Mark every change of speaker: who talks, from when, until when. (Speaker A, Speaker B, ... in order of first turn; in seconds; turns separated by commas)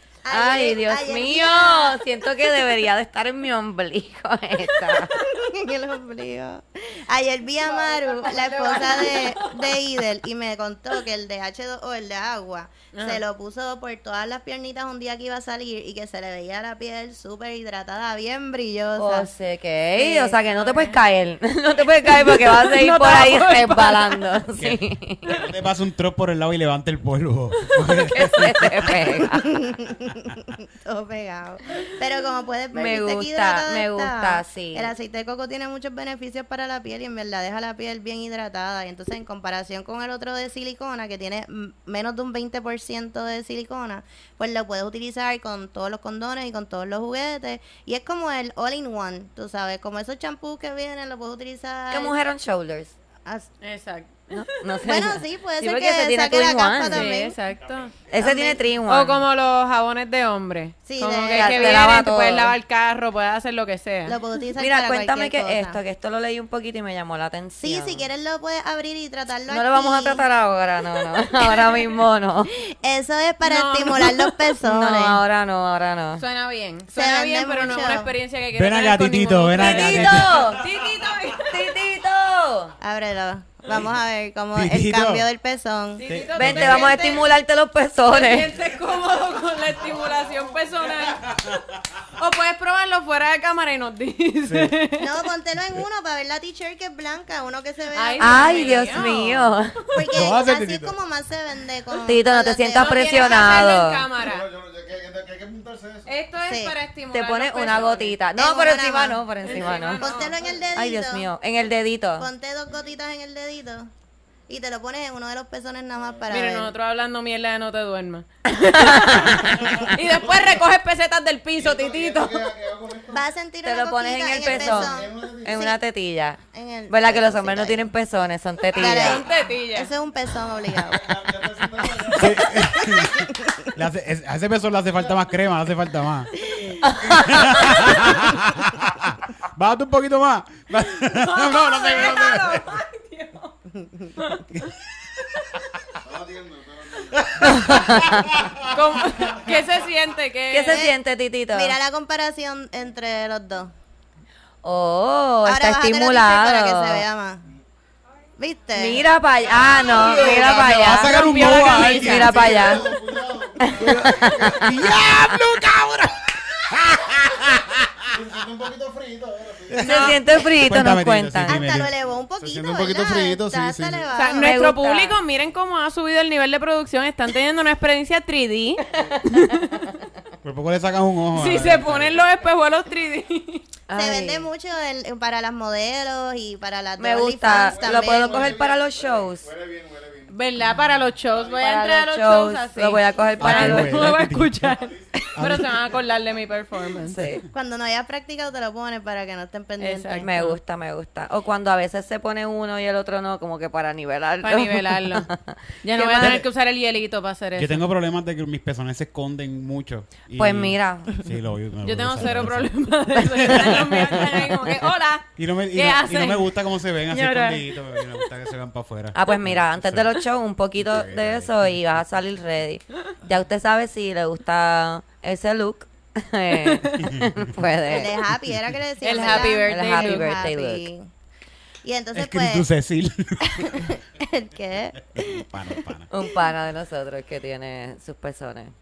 Speaker A: 0.2-2.0, Speaker B: 0.3-5.1, Speaker A: 5.2-19.3, Speaker C: 7.7-9.8, Speaker C: 12.9-13.2, Speaker B: 19.0-25.4, Speaker A: 19.9-20.4, Speaker C: 20.1-21.0, Speaker C: 22.0-24.3, Speaker D: 24.6-28.9, Speaker B: 28.0-29.6, Speaker A: 29.4-52.1, Speaker B: 32.7-34.9, Speaker B: 51.9-52.9, Speaker C: 53.6-54.8, Speaker B: 54.3-57.1, Speaker A: 54.8-57.4, Speaker C: 56.9-58.0, Speaker B: 58.1-59.2, Speaker A: 58.2-58.6, Speaker C: 58.8-64.2, Speaker A: 60.9-61.9, Speaker B: 61.3-62.5, Speaker A: 64.0-65.8, Speaker B: 64.6-68.0, Speaker A: 67.6-70.2, Speaker B: 69.5-72.5, Speaker A: 71.4-71.8, Speaker A: 72.5-75.2, Speaker C: 73.4-74.4, Speaker B: 74.6-76.2, Speaker C: 76.2-81.7, Speaker A: 76.9-78.1, Speaker D: 78.5-80.5, Speaker B: 79.5-80.7, Speaker B: 81.3-82.7, Speaker A: 82.8-86.0, Speaker D: 84.5-85.2, Speaker C: 86.0-87.3, Speaker D: 86.0-86.9, Speaker B: 86.3-88.5, Speaker C: 88.1-91.3, Speaker C: 92.2-95.1, Speaker D: 94.4-94.8, Speaker A: 95.0-99.2, Speaker C: 97.9-99.5, Speaker B: 98.2-99.8, Speaker A: 99.9-103.6, Speaker D: 100.0-100.9, Speaker B: 102.0-104.0, Speaker C: 102.7-104.5, Speaker E: 104.2-106.1, Speaker C: 106.0-108.2, Speaker A: 106.4-106.8, Speaker B: 107.1-110.1, Speaker A: 108.3-109.2, Speaker C: 109.4-110.3, Speaker A: 110.0-111.3, Speaker B: 110.7-112.3, Speaker A: 112.2-113.9, Speaker A: 114.5-116.7, Speaker C: 116.3-122.5, Speaker B: 118.5-119.9, Speaker E: 121.6-123.2, Speaker A: 123.1-125.8, Speaker B: 123.6-129.2, Speaker E: 124.4-125.7, Speaker A: 126.5-127.9, Speaker A: 128.7-131.1, Speaker C: 128.8-129.9, Speaker E: 130.9-132.8, Speaker A: 132.0-133.7, Speaker D: 132.1-136.4, Speaker A: 136.5-136.8, Speaker B: 136.8-137.8, Speaker D: 137.0-142.6, Speaker C: 140.9-143.6, Speaker C: 144.2-144.5, Speaker E: 146.0-147.9, Speaker D: 147.3-148.2, Speaker B: 147.4-148.3, Speaker C: 148.7-150.8, Speaker B: 150.5-151.7, Speaker A: 150.7-151.0, Speaker A: 151.5-153.7, Speaker B: 154.6-157.0, Speaker A: 155.4-157.4, Speaker A: 158.4-159.0, Speaker B: 158.7-162.9, Speaker E: 159.6-160.5, Speaker D: 159.9-162.8, Speaker C: 159.9-162.6, Speaker E: 162.1-164.7, Speaker B: 163.6-164.7, Speaker D: 163.8-167.9, Speaker E: 168.1-169.9, Speaker D: 169.7-171.9, Speaker B: 169.8-171.6, Speaker C: 169.9-170.1, Speaker A: 171.5-174.6, Speaker E: 172.4-174.0, Speaker D: 173.3-173.9, Speaker C: 174.1-179.8, Speaker B: 174.3-175.2, Speaker D: 180.4-182.2, Speaker C: 181.3-183.6, Speaker B: 183.9-184.5, Speaker A: 183.9-188.6, Speaker B: 187.0-189.5, Speaker E: 187.6-190.3, Speaker C: 190.3-197.2, Speaker E: 191.3-191.6, Speaker B: 191.6-194.2, Speaker D: 193.4-194.8, Speaker D: 195.3-195.8, Speaker B: 197.0-197.4, Speaker A: 197.5-200.3, Speaker C: 199.8-200.6, Speaker B: 200.2-206.4, Speaker C: 204.4-205.3, Speaker C: 205.8-207.8, Speaker D: 206.2-206.4, Speaker D: 207.6-214.3, Speaker B: 210.4-211.2, Speaker C: 211.8-216.6, Speaker B: 213.4-213.9, Speaker D: 215.4-220.2, Speaker C: 217.1-218.2, Speaker B: 219.1-228.1, Speaker D: 220.8-222.0, Speaker C: 226.6-227.1, Speaker A: 227.9-231.1, Speaker C: 229.0-230.5, Speaker B: 229.1-230.9, Speaker A: 231.8-232.6, Speaker D: 232.1-234.0, Speaker A: 233.4-235.4, Speaker D: 235.1-236.1, Speaker B: 236.1-238.7